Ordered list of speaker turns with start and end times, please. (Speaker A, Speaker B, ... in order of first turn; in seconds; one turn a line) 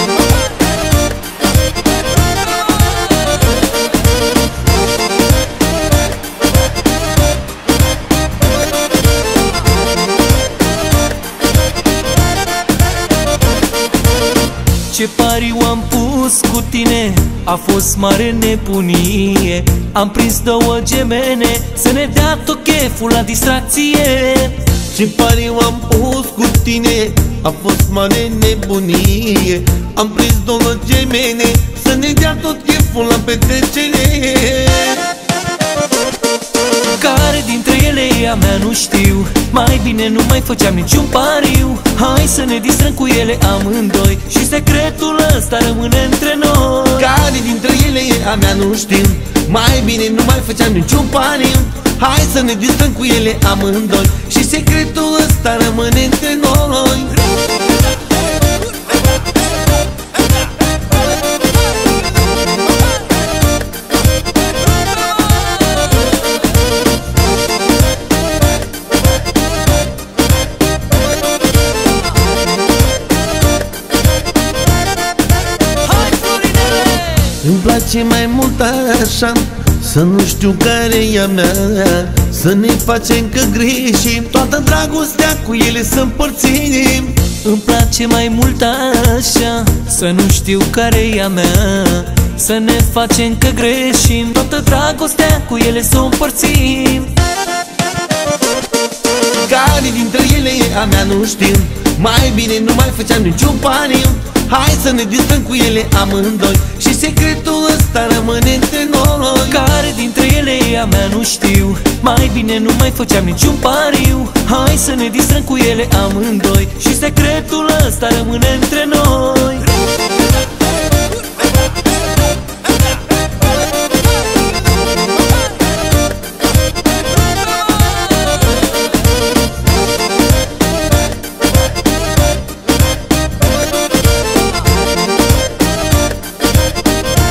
Speaker A: 14.9-24.7
Speaker B: 24.9-35.1
Speaker A: 36.9-47.1
Speaker B: 47.0-57.2
Speaker A: 75.8-77.4
Speaker B: 77.4-87.2
Speaker A: 87.3-97.1
Speaker B: 99.4-109.6
Speaker A: 109.5-119.8